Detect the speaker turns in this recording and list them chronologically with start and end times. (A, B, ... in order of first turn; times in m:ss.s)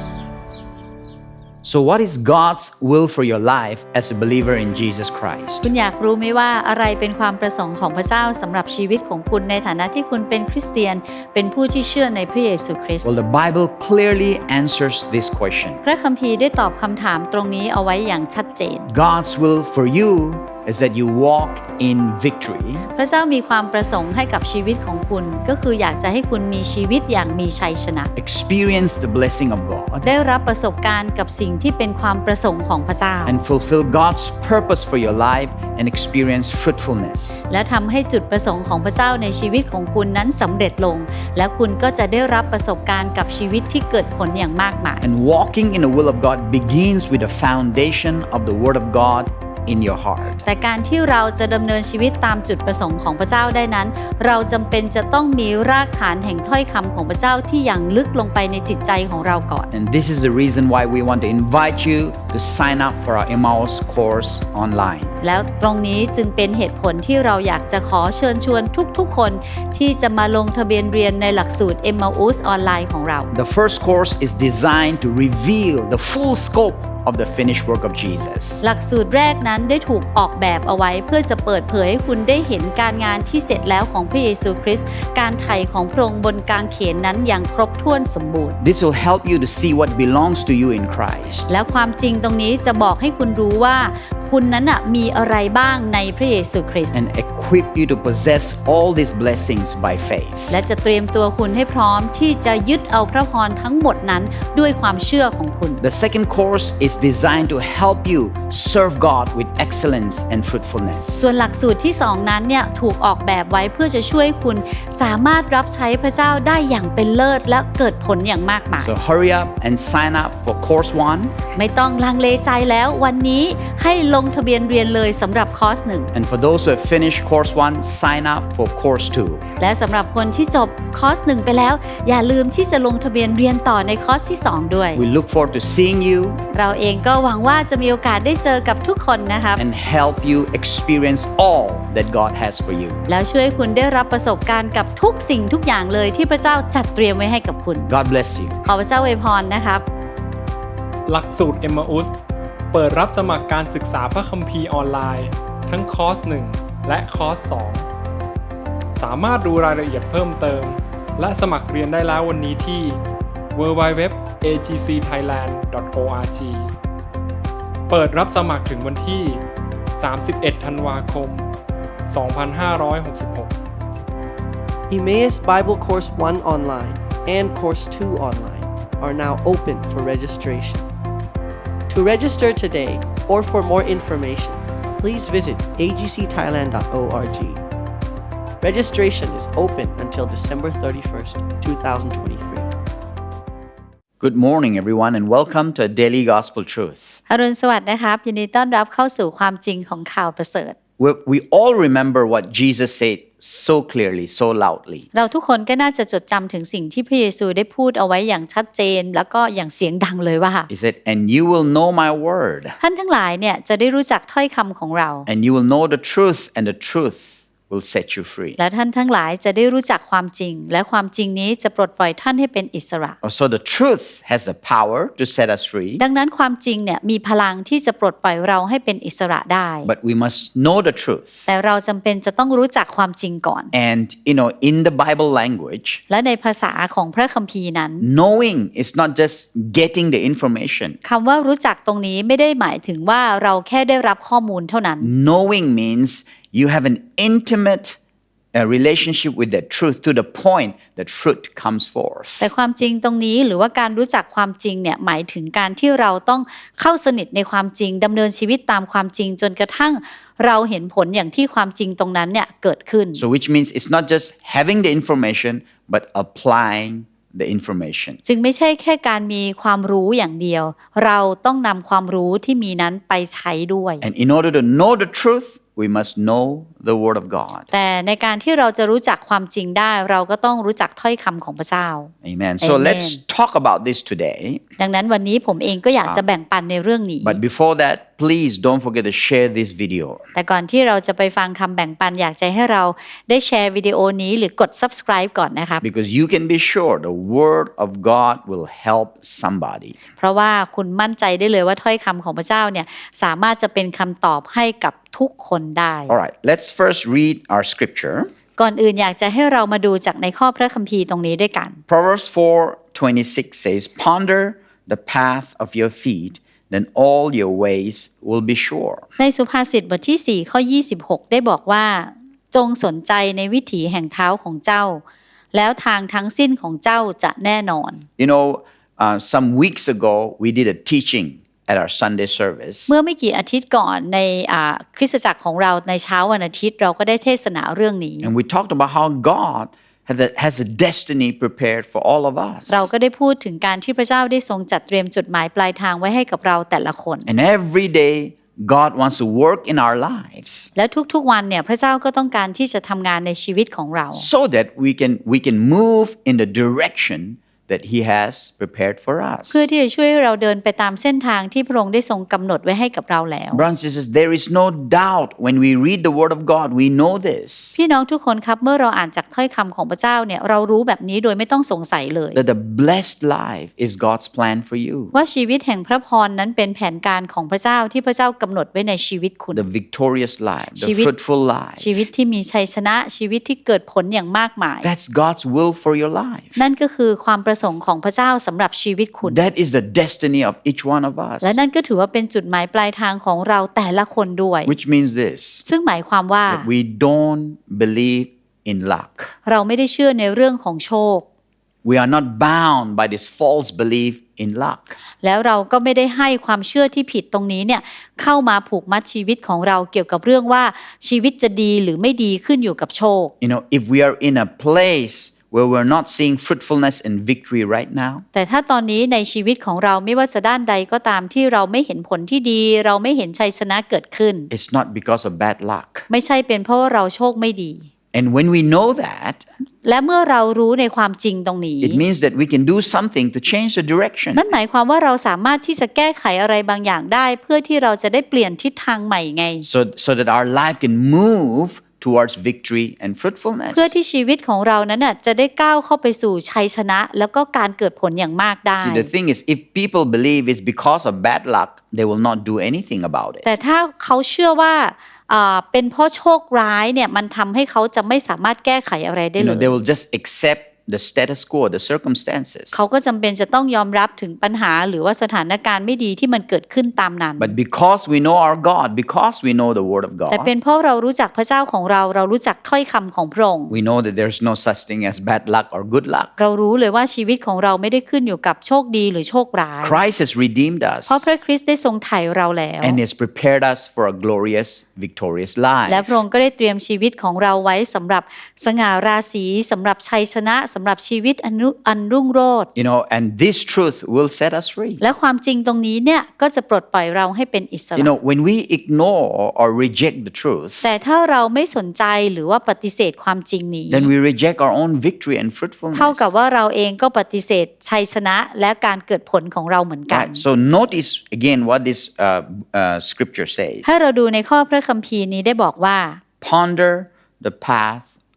0:01.6-0:05.7 A
0:05.6-0:13.0 B
0:13.0-0:15.8 A
0:15.8-0:18.9 B
0:18.9-0:22.9 A
0:22.9-0:28.1 B
0:28.2-0:30.1 A
0:30.0-0:33.4 B
0:33.2-0:37.4 A
0:37.5-0:45.0 B
0:45.0-0:50.4 A
0:50.4-0:59.7 B
0:59.7-1:05.1 A
1:05.2-1:13.3 B
1:13.3-1:18.6 A
1:18.6-1:28.6 B
1:28.6-1:31.5 A
1:31.5-1:36.9 B
1:36.9-1:40.6 A
1:40.5-1:45.8 B
1:45.8-1:51.3 A
1:51.2-1:58.9 B
1:58.8-2:01.4 A
2:01.6-2:06.1 B
2:06.1-2:09.4 A
2:09.6-2:15.0 B
2:14.9-2:16.4 A
2:16.5-2:19.6 B
2:19.6-2:23.1 A
2:23.1-2:27.9 B
2:27.9-2:28.7 A
2:28.6-2:29.8 B
2:31.0-2:32.2 C
2:32.7-2:37.9 C
2:39.0-2:43.0 C
2:43.5-2:46.7 C
2:47.9-2:49.4 C
2:49.9-2:51.5 C
2:52.1-2:53.6 C
2:54.9-3:00.9 D
3:01.9-3:07.6 D
3:08.6-3:12.7 D
3:14.2-3:17.2 A
3:17.3-3:20.8 B
3:21.0-3:25.1 A
3:25.1-3:30.7 B
3:30.7-3:32.8 A
3:32.8-3:35.3 B
3:35.2-3:38.6 A
3:38.6-3:43.2 B
3:43.2-3:46.0 A
3:46.0-3:49.9 B
3:49.8-3:51.5 A
3:51.5-3:53.7 B
3:53.7-3:56.0 A
3:56.1-3:58.0 B
3:58.0-4:01.0 A
4:01.0-4:05.1 B
4:05.0-4:08.0 A
4:08.5-4:12.5 A
4:12.4-4:23.2 B
4:23.2-4:28.2 A
4:28.2-4:34.0 B
4:34.0-4:37.7 A
4:37.7-4:42.1 B
4:42.2-4:44.6 A
4:42.6-4:43.2 B
4:44.8-4:47.4 B
4:47.2-4:50.2 A
4:50.3-4:55.8 B
4:55.8-5:00.0 A
5:00.2-5:06.1 B
5:06.1-5:08.3 A
5:08.6-5:11.8 B
5:11.9-5:19.1 A
5:19.2-5:25.0 B
5:25.5-5:28.0 B
5:28.2-5:33.0 A
5:32.9-5:38.3 B
5:38.2-5:42.9 A
5:42.7-5:47.3 B
5:47.2-5:50.7 A
5:50.8-5:54.3 B
5:54.1-5:59.6 A
5:59.5-6:03.6 B
6:03.5-6:07.8 A
6:07.7-6:12.4 B
6:12.3-6:15.1 A
6:15.1-6:19.6 B
6:19.5-6:22.0 A
6:20.8-6:21.1 B
6:21.8-6:24.9 B
6:24.8-6:26.6 A
6:26.6-6:29.4 B
6:29.2-6:31.6 A
6:31.4-6:34.7 B
6:34.6-6:35.6 A
6:35.6-6:36.7 B
6:36.5-6:39.3 A
6:39.4-6:41.2 B
6:41.8-6:45.0 A
6:45.2-6:53.3 B
6:53.4-6:58.2 A
6:58.3-7:04.5 B
7:04.5-7:06.0 A
7:06.1-7:07.9 B
7:08.1-7:09.4 A
7:09.8-7:12.0 B
7:11.8-7:14.4 A
7:14.3-7:19.6 B
7:19.6-7:24.0 A
7:23.7-7:29.1 B
7:28.8-7:33.4 A
7:33.4-7:39.7 B
7:39.4-7:42.8 A
7:42.7-7:47.5 B
7:47.4-7:50.5 A
7:50.3-7:53.7 B
7:53.7-7:56.3 A
7:56.4-8:00.0 B
7:59.8-8:01.3 A
8:01.1-8:03.0 B
8:02.8-8:06.2 A
8:05.9-8:12.7 B
8:12.8-8:15.0 A
8:15.0-8:18.1 B
8:18.0-8:20.9 A
8:20.8-8:24.1 B
8:23.9-8:26.3 A
8:25.9-8:30.4 B
8:30.1-8:33.9 A
8:33.8-8:36.2 B
8:36.4-8:38.1 A